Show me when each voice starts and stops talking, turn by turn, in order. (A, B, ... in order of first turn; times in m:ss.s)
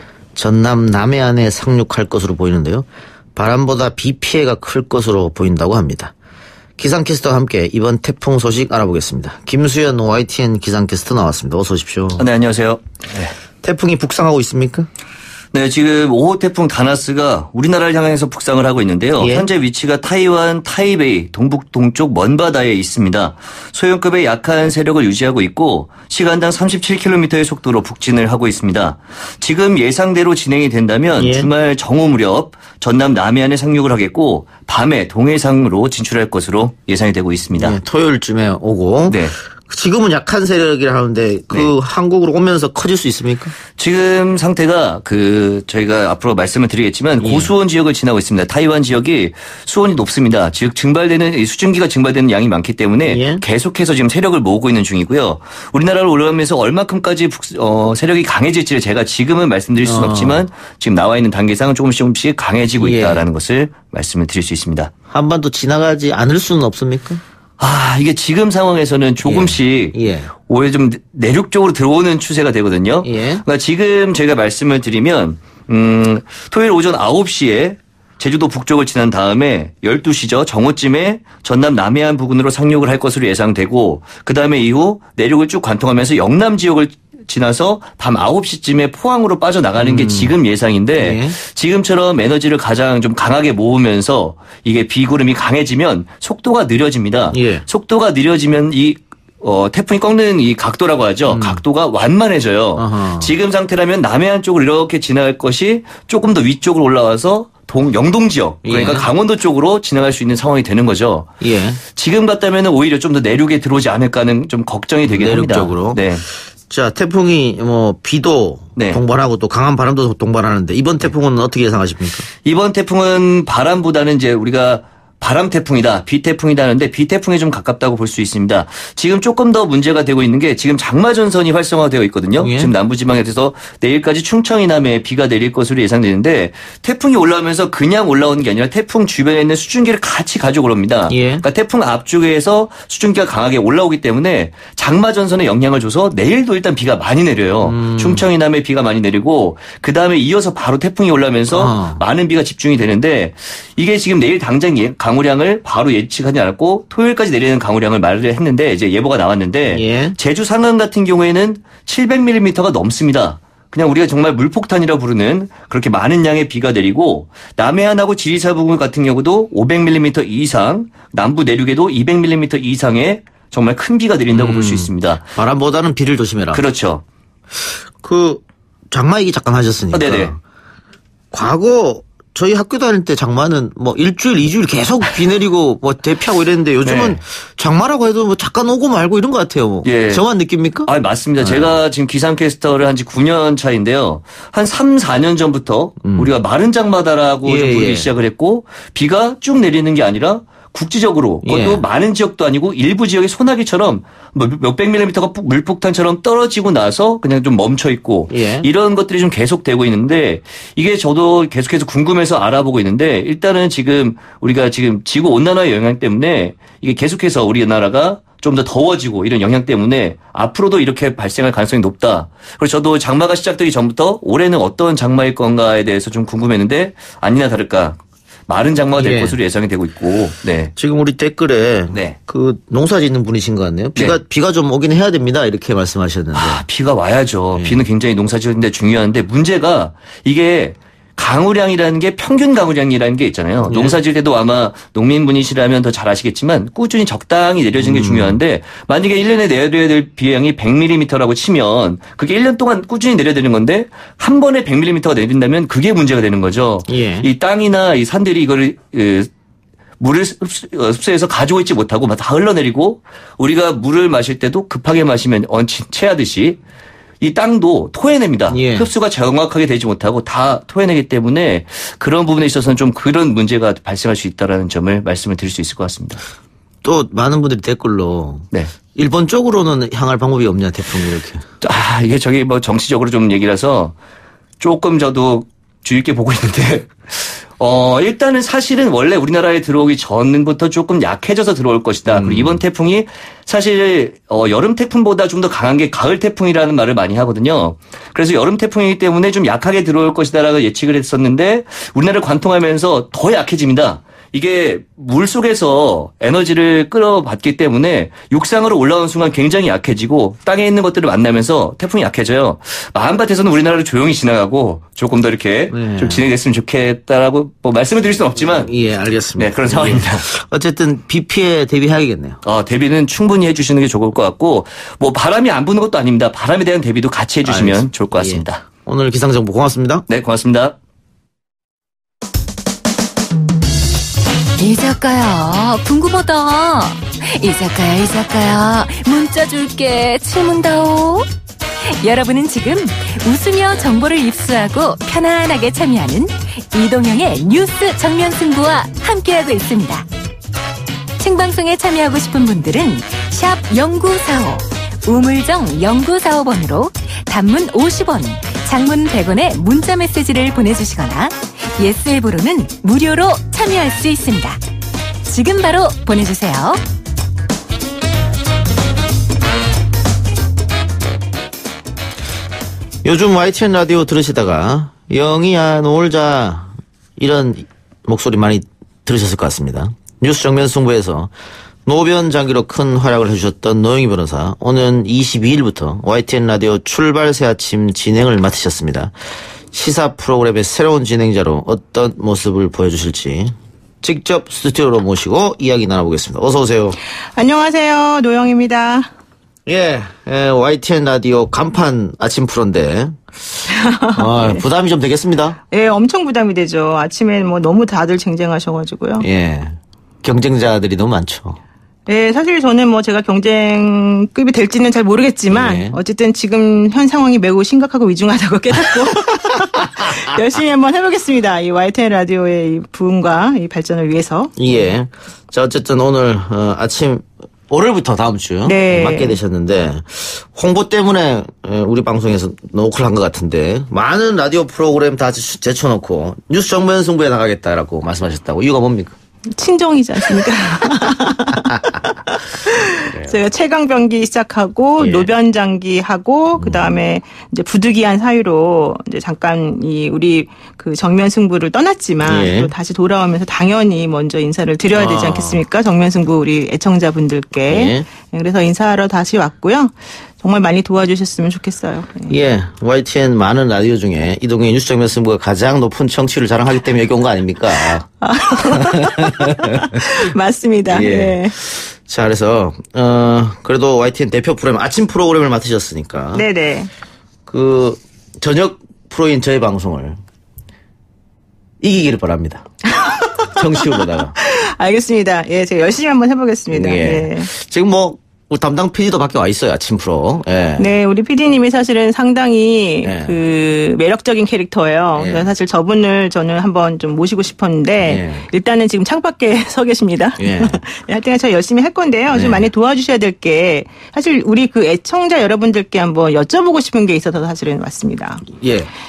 0:00.4-0:06.1 A
0:06.8-0:12.3 A
0:12.2-0:13.3 B
0:13.6-0:14.9 A
0:15.5-0:37.8 B
0:19.2-0:19.5 A
0:31.1-0:31.5 A
0:37.6-0:43.5 A
0:39.1-0:39.3 B
0:43.7-1:04.9 B
0:47.2-0:47.5 A
0:53.0-0:53.4 A
0:59.8-1:00.4 A
1:02.8-1:03.2 A
1:05.1-1:07.2 A
1:07.6-1:51.3 B
1:09.2-1:10.3 A
1:13.0-1:13.4 A
1:29.8-1:30.3 A
1:31.0-1:31.4 A
1:37.3-1:37.6 A
1:41.3-1:41.6 A
1:42.8-1:43.3 A
1:48.6-1:49.1 A
1:51.4-1:51.8 A
1:51.9-1:56.2 B
1:55.0-2:02.2 A
1:58.8-1:59.0 B
2:02.4-2:55.3 B
2:12.4-2:12.7 A
2:21.1-2:21.4 A
2:27.6-2:28.2 A
2:31.5-2:32.0 A
2:39.7-2:40.2 A
2:54.3-2:56.6 A
2:56.5-2:57.0 B
2:58.0-3:00.4 A
2:59.9-3:00.3 B
3:01.3-3:10.9 A
3:06.8-3:07.2 B
3:09.8-3:10.2 B
3:10.8-3:50.7 B
3:11.4-3:11.8 A
3:16.0-3:16.3 A
3:17.4-3:18.1 A
3:21.4-3:21.8 A
3:28.3-3:28.7 A
3:49.0-3:49.4 A
3:50.8-3:56.6 A
3:51.9-3:52.2 B
3:56.3-4:19.3 B
3:57.5-3:57.8 A
4:03.6-4:04.0 A
4:07.8-4:08.4 A
4:16.9-4:17.3 A
4:20.0-4:26.6 B
4:27.2-4:36.2 B
4:28.5-4:28.9 A
4:36.8-4:41.4 A
4:41.6-4:43.9 B
4:44.6-5:18.7 B
4:52.0-4:52.6 A
5:15.7-5:16.2 A
5:18.4-5:22.4 A
5:19.4-5:20.3 B
5:22.4-5:28.6 B
5:27.4-5:30.0 A
5:30.1-5:30.7 B
5:34.6-5:41.3 C
5:41.9-5:50.0 C
5:51.2-6:04.6 C
6:05.2-6:06.8 C
6:13.0-6:21.3 A
6:21.8-6:29.1 A
6:29.7-6:37.0 A
6:37.3-6:39.1 D
6:39.6-6:43.3 A
6:43.7-6:44.6 D
6:44.1-6:45.6 A
6:45.7-6:49.3 D
6:49.2-6:51.6 A
6:52.1-7:04.9 D
6:55.5-6:56.0 A
7:04.6-7:19.2 A
7:08.6-7:09.4 D
7:19.5-7:42.4 D
7:23.1-7:23.4 A
7:25.0-7:25.3 A
7:26.6-7:26.9 A
7:32.2-7:32.7 A
7:34.9-7:35.6 A
7:37.7-7:38.1 A
7:42.3-7:48.0 A
7:47.8-7:51.5 D
7:50.9-7:56.4 A
7:56.3-7:56.9 D
7:57.5-8:00.2 A
8:01.8-8:02.6 A
8:02.8-8:07.5 D
8:03.6-8:04.3 A
8:06.7-8:10.9 A
8:10.8-8:28.5 D
8:13.0-8:13.4 A
8:15.1-8:15.5 A
8:18.0-8:18.5 A
8:20.4-8:20.8 A
8:22.3-8:22.7 A
8:28.5-8:28.9 A